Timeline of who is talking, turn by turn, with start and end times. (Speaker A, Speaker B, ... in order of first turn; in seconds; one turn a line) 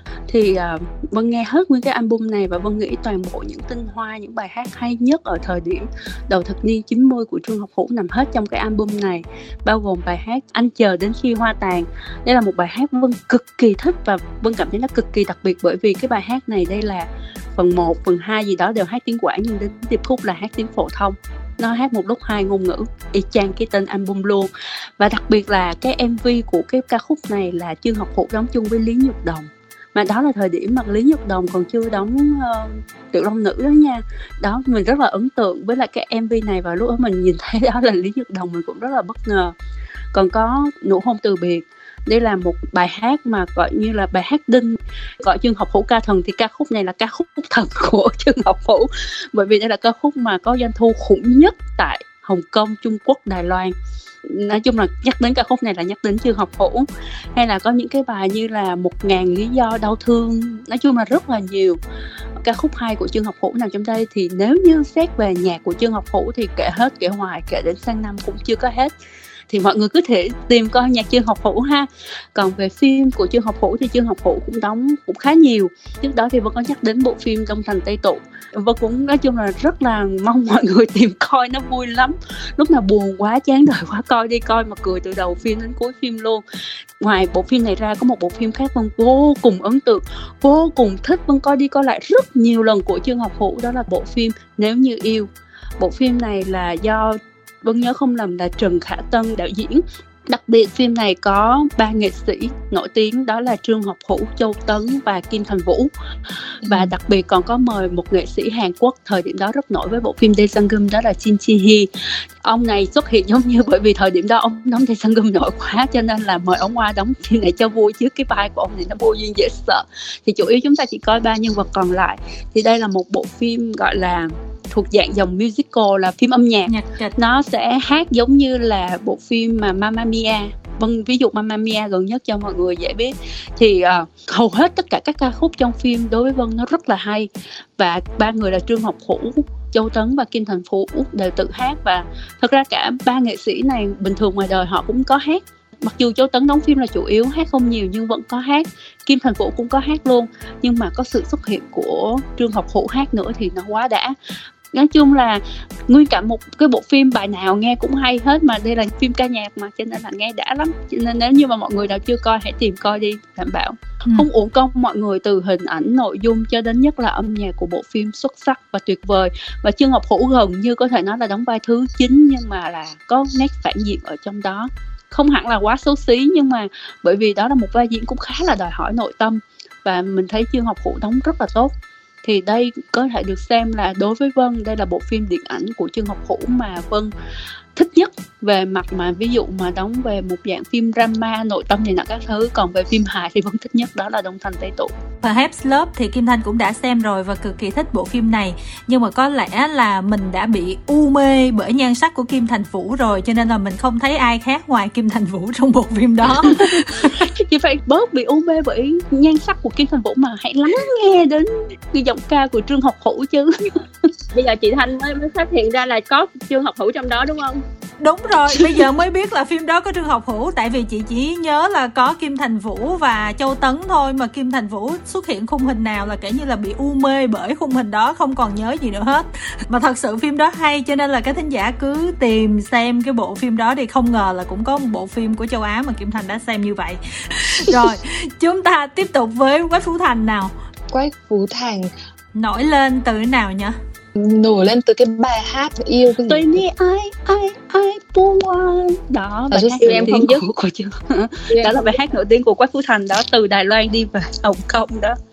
Speaker A: 0.3-39.5
Speaker A: 40.1-53.7
Speaker A: 54.2-61.8
Speaker A: 62.4-68.9
Speaker A: 69.5-86.4
Speaker A: 87.0-111.9
Speaker B: 106.7-106.9
Speaker A: 112.4-154.2
Speaker C: 126.7-127.1
Speaker A: 154.7-181.7
Speaker A: 182.2-187.1
Speaker A: 187.7-194.9
Speaker C: 195.2-207.3
Speaker A: 206.3-214.1
Speaker D: 214.3-217.6
Speaker C: 218.0-240.5
Speaker B: 237.6-237.9
Speaker B: 240.9-241.9
Speaker C: 242.3-243.8
Speaker B: 244.1-246.6
Speaker A: 246.3-255.2
Speaker B: 249.5-250.3
Speaker D: 249.8-250.4
Speaker D: 251.5-252.0